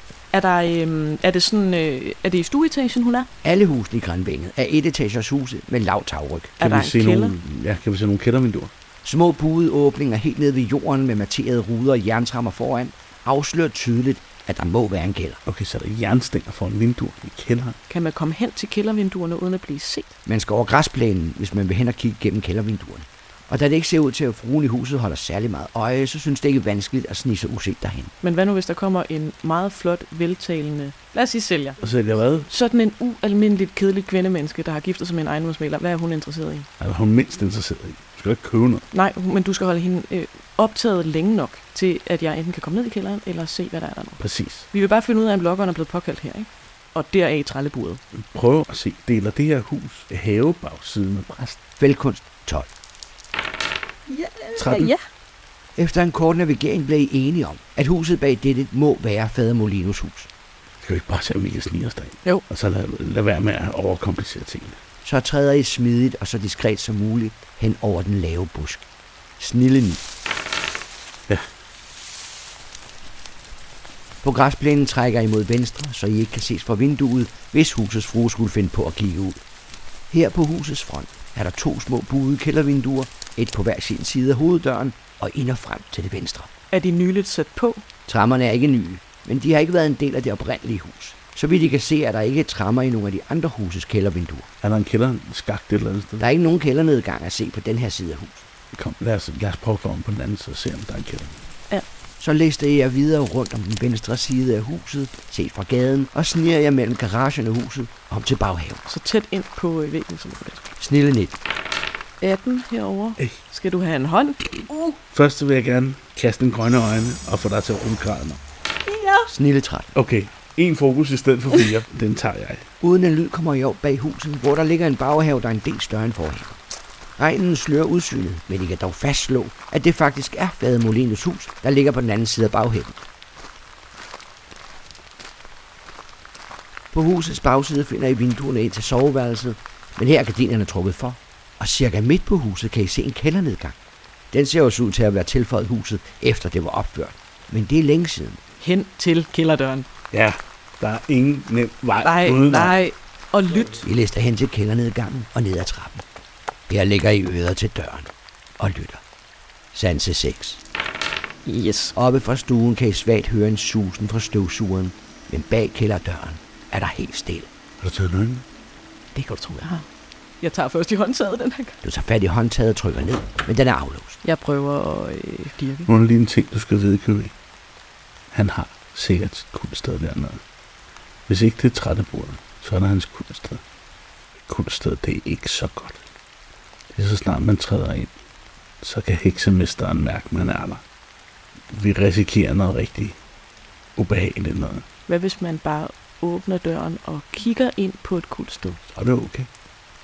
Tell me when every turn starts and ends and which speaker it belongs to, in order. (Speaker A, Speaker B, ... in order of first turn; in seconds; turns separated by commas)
Speaker A: 0.3-3.3, Speaker B: 3.4-6.6, Speaker A: 6.6-7.3, Speaker C: 6.6-8.7, Speaker B: 9.1-15.4, Speaker C: 15.5-17.8, Speaker A: 17.9-20.2, Speaker B: 20.3-28.1, Speaker A: 28.2-31.8, Speaker C: 31.8-32.5, Speaker A: 32.5-36.7, Speaker C: 36.8-38.9, Speaker A: 38.9-44.2, Speaker C: 44.2-44.7, Speaker A: 44.7-48.0, Speaker C: 48.1-51.6, Speaker B: 51.8-52.7, Speaker A: 54.1-55.0, Speaker C: 54.6-54.9, Speaker B: 55.8-60.3, Speaker C: 60.8-64.8, Speaker B: 65.0-68.8, Speaker B: 69.4-70.0, Speaker B: 74.2-79.4, Speaker B: 80.1-86.5, Speaker A: 86.7-87.8, Speaker B: 88.1-94.5, Speaker C: 94.6-96.2, Speaker B: 96.2-98.5, Speaker C: 98.7-101.4, Speaker B: 102.2-108.8, Speaker A: 108.8-110.6, Speaker B: 110.8-111.4, Speaker A: 112.2-115.0, Speaker C: 115.1-118.4, Speaker A: 118.8-119.3, Speaker B: 119.3-119.9, Speaker C: 120.0-122.7, Speaker B: 122.8-126.6, Speaker B: 127.2-133.0, Speaker B: 136.9-143.8, Speaker B: 144.3-148.4, Speaker A: 148.6-149.9, Speaker C: 150.1-152.8, Speaker A: 152.0-153.9, Speaker B: 153.8-156.0, Speaker B: 156.7-159.0, Speaker B: 159.7-160.6, Speaker A: 161.5-161.9, Speaker B: 161.9-167.5, Speaker C: 167.8-168.4, Speaker A: 169.2-169.9, Speaker A: 170.4-171.8, Speaker B: 171.8-174.2, Speaker A: 174.2-175.9, Speaker C: 175.9-177.3, Speaker C: 178.3-180.4, Speaker C: 181.3-183.6, Speaker C: 184.5-186.0, Speaker C: 186.9-188.1, Speaker C: 188.8-190.8, Speaker C: 191.7-193.2, Speaker C: 194.0-194.9, Speaker A: 195.1-198.8, Speaker C: 198.9-199.5